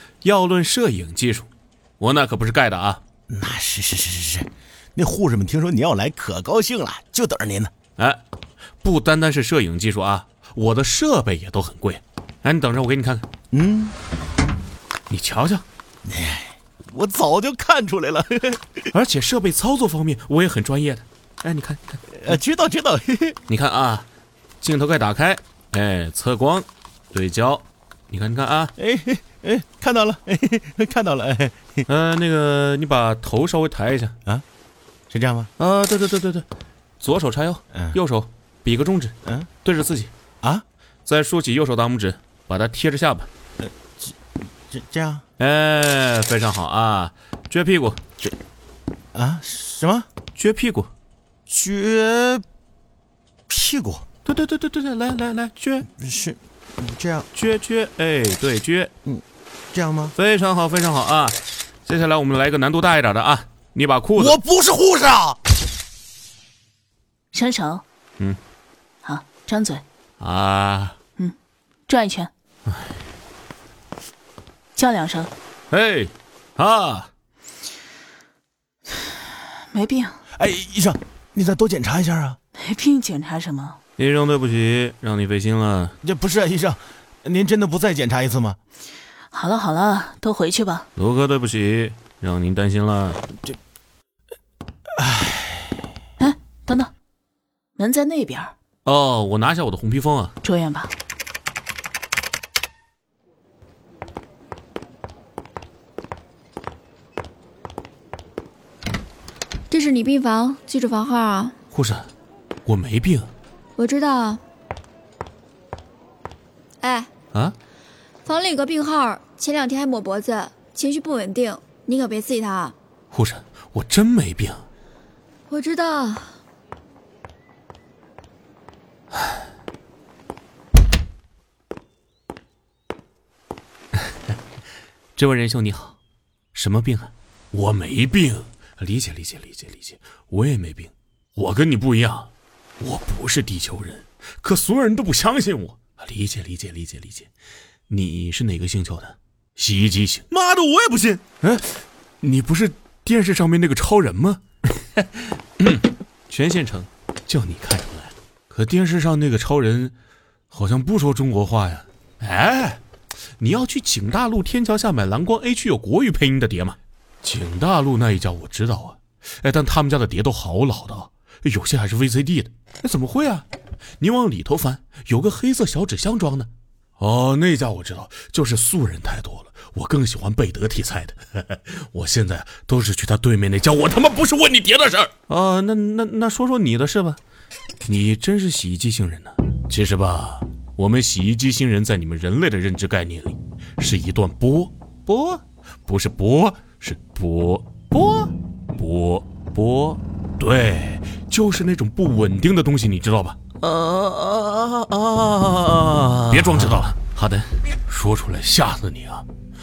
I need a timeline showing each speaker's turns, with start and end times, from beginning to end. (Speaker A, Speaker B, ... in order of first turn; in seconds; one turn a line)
Speaker A: 0.2-3.0
Speaker B: 3.3-7.7
Speaker A: 8.8-13.3
Speaker B: 13.5-14.0
Speaker A: 15.1-15.7
Speaker B: 16.0-18.9
Speaker A: 18.9-22.4
Speaker B: 22.2-23.4
Speaker A: 23.5-24.1
Speaker A: 24.6-28.7
Speaker B: 28.8-31.9
Speaker A: 31.9-34.1
Speaker B: 35.1-35.5
Speaker A: 35.6-36.5
Speaker A: 37.0-40.1
Speaker B: 37.7-38.0
Speaker B: 39.2-39.5
Speaker A: 41.1-43.3
Speaker B: 43.6-45.2
Speaker A: 45.4-48.0
Speaker B: 49.1-50.1
Speaker A: 50.4-50.9
Speaker B: 51.5-52.5
Speaker B: 53.5-54.0
Speaker A: 54.2-55.9
Speaker B: 55.9-57.3
Speaker A: 57.3-58.9
Speaker B: 59.0-60.1
Speaker A: 60.2-64.4
Speaker B: 64.2-65.4
Speaker C: 67.3-67.8
Speaker C: 69.0-69.8
Speaker A: 70.2-71.0
Speaker C: 71.9-72.3
Speaker C: 74.8-75.3
Speaker A: 75.7-77.1
Speaker C: 79.7-80.2
Speaker B: 80.4-82.4
Speaker C: 82.6-83.8
Speaker A: 84.0-86.0
Speaker B: 86.0-88.6
Speaker C: 89.3-90.9
Speaker A: 91.0-93.2
Speaker B: 95.0-95.8
Speaker C: 96.2-96.9
Speaker C: 97.8-98.5
Speaker A: 98.8-100.3
Speaker C: 100.4-100.9
Speaker D: 109.7-111.5
Speaker A: 111.7-112.1
Speaker A: 112.7-113.3
Speaker D: 113.8-114.4
Speaker D: 116.8-117.1
Speaker D: 118.2-122.8
Speaker A: 123.1-124.7
Speaker D: 125.5-126.4
Speaker A: 135.2-136.0
Speaker A: 136.5-147.3
Speaker A: 147.9-151.7
Speaker B: 150.5-151.2
Speaker A: 152.2-154.4
Speaker A: 155.6-159.9
Speaker A: 160.5-162.8
Speaker A: 163.4-173.5
Speaker A: 174.0-187.2
Speaker A: 187.8-209.3